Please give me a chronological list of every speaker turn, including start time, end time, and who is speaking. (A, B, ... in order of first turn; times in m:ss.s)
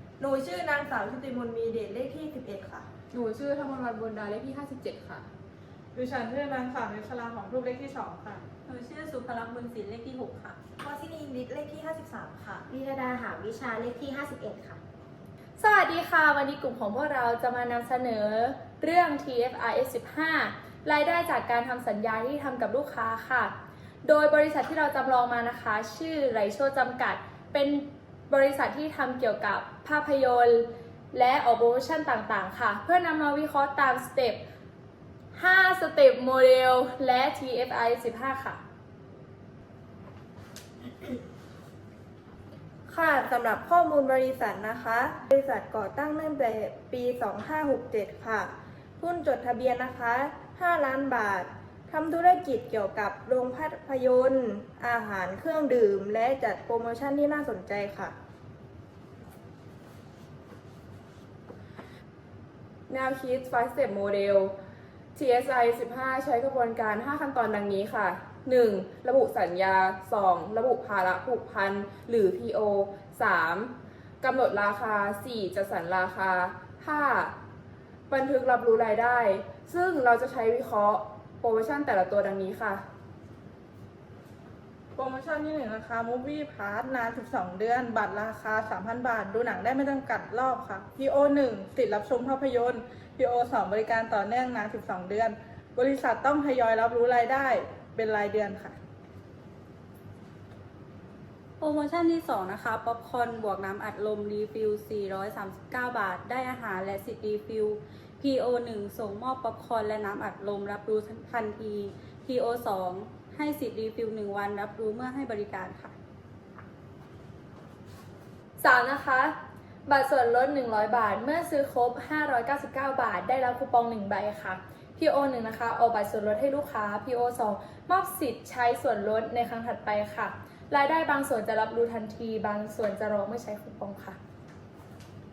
0:00.2-0:02.8 A
0:03.1-0:05.2 B
0:05.9-0:08.4 C
0:08.6-0:10.6 D
0:10.8-0:12.2 A
0:12.4-0:14.8 E
0:15.6-0:23.5 F
0:24.0-0:34.4 F
0:35.3-0:38.6 F
0:42.9-0:58.1 A
1:02.9-1:04.5 B
1:05.1-1:17.3 B
1:18.1-1:22.8 B
1:25.0-1:38.8 C
1:41.6-1:55.9 D
1:58.6-1:59.3 F
1:59.8-2:14.2 F